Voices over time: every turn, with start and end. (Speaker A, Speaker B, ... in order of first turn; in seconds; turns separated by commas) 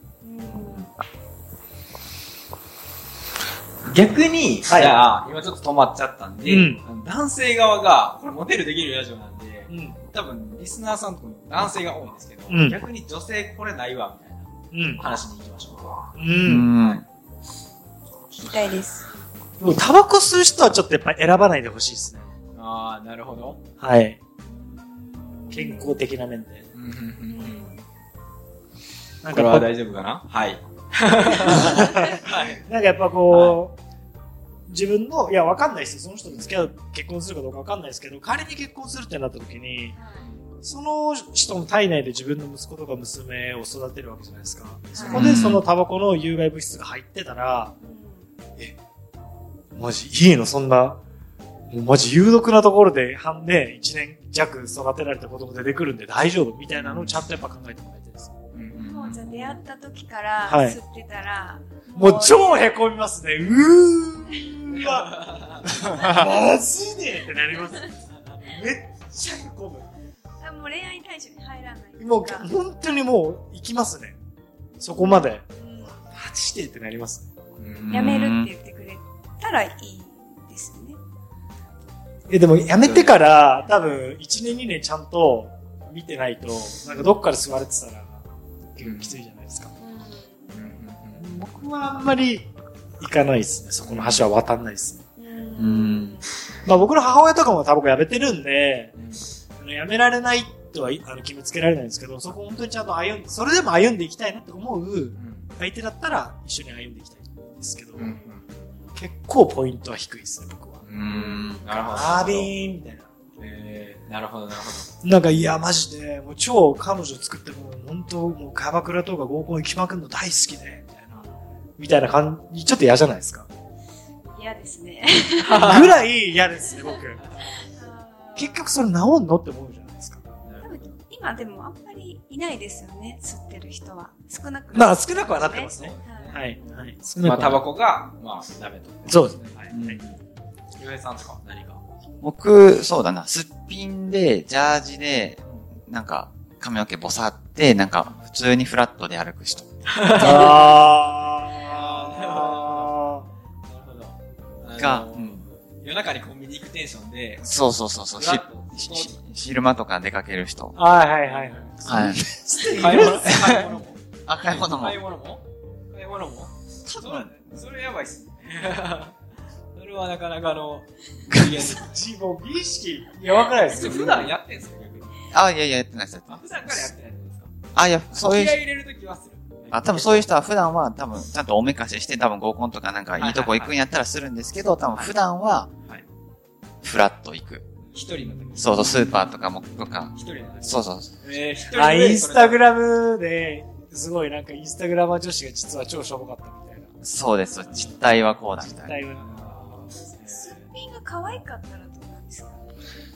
Speaker A: 0.2-0.9, Speaker B: 0.5-0.8, Speaker C: 3.9-16.1, Speaker B: 4.7-5.0, Speaker B: 6.4-6.8, Speaker B: 9.7-10.0, Speaker B: 12.5-12.8, Speaker B: 14.7-15.0, Speaker B: 16.2-16.7, Speaker D: 16.4-17.0, Speaker A: 18.3-19.1, Speaker B: 19.6-22.3, Speaker C: 22.3-23.6, Speaker B: 23.8-24.2, Speaker A: 24.5-26.0, Speaker B: 25.5-26.6, Speaker C: 26.7-27.6, Speaker A: 27.3-27.8, Speaker B: 29.2-29.7, Speaker C: 29.3-32.6, Speaker B: 31.5-33.8, Speaker C: 33.3-33.6, Speaker B: 34.7-39.9, Speaker C: 36.3-36.7, Speaker A: 39.9-40.2, Speaker B: 40.6-47.7, Speaker A: 44.9-45.2, Speaker D: 45.0-45.6, Speaker A: 47.8-48.3, Speaker B: 49.8-51.0, Speaker B: 51.7-58.3, Speaker C: 56.8-57.2, Speaker C: 58.5-59.6, Speaker A: 58.7-62.8, Speaker B: 60.5-60.8, Speaker B: 61.9-65.1, Speaker C: 64.7-65.6, Speaker B: 65.7-67.9, Speaker C: 68.1-68.4, Speaker B: 68.4-69.9, Speaker A: 70.4-72.5, Speaker B: 72.0-74.2, Speaker B: 74.8-75.4, Speaker A: 74.9-76.0, Speaker B: 76.0-77.3, Speaker C: 77.6-78.1, Speaker D: 77.8-78.5, Speaker A: 77.9-81.0, Speaker B: 82.3-88.2, Speaker C: 82.8-83.2, Speaker A: 86.9-87.2, Speaker B: 88.7-89.7, Speaker C: 88.8-89.2, Speaker A: 89.8-90.5, Speaker C: 90.5-91.2, Speaker B: 91.2-95.0, Speaker C: 93.8-94.3, Speaker A: 95.2-96.3, Speaker D: 95.6-96.2, Speaker B: 96.6-98.9, Speaker C: 99.0-99.3, Speaker B: 99.6-108.1, Speaker C: 105.2-105.5, Speaker C: 108.0-108.5, Speaker A: 108.0-108.9, Speaker B: 108.9-113.1, Speaker C: 110.8-112.5, Speaker A: 111.1-111.7, Speaker C: 113.4-115.5, Speaker B: 115.0-121.2, Speaker A: 121.1-121.4, Speaker B: 121.8-123.5, Speaker A: 124.2-125.9, Speaker C: 125.5-126.0, Speaker B: 125.6-127.2, Speaker A: 126.6-128.6, Speaker C: 127.2-127.5, Speaker B: 128.3-130.2, Speaker C: 130.4-131.0, Speaker A: 130.6-137.0, Speaker B: 134.7-137.6, Speaker C: 135.4-136.4, Speaker C: 137.2-140.1, Speaker B: 139.1-140.0, Speaker D: 139.7-140.0, Speaker C: 140.8-141.8, Speaker D: 142.2-149.7, Speaker C: 149.8-150.9, Speaker B: 150.1-153.2, Speaker C: 151.6-153.1, Speaker C: 153.7-157.4, Speaker D: 154.8-155.4, Speaker D: 157.4-160.8, Speaker C: 158.2-159.2, Speaker B: 160.7-163.8, Speaker C: 161.1-169.1, Speaker D: 161.8-162.2, Speaker D: 163.0-165.0, Speaker D: 166.8-167.3, Speaker C: 169.7-171.9, Speaker B: 171.6-174.3, Speaker C: 173.4-175.2, Speaker D: 173.8-174.2, Speaker D: 175.3-176.9, Speaker C: 176.3-177.6, Speaker D: 177.7-178.6, Speaker C: 178.1-180.3, Speaker D: 179.7-185.7, Speaker C: 183.2-183.8, Speaker D: 186.8-187.6, Speaker C: 187.9-189.3, Speaker B: 188.2-189.3, Speaker D: 188.5-191.2, Speaker C: 190.1-192.7, Speaker B: 191.7-196.9, Speaker D: 197.0-199.0, Speaker B: 197.7-200.0, Speaker C: 199.2-200.7, Speaker A: 200.2-202.6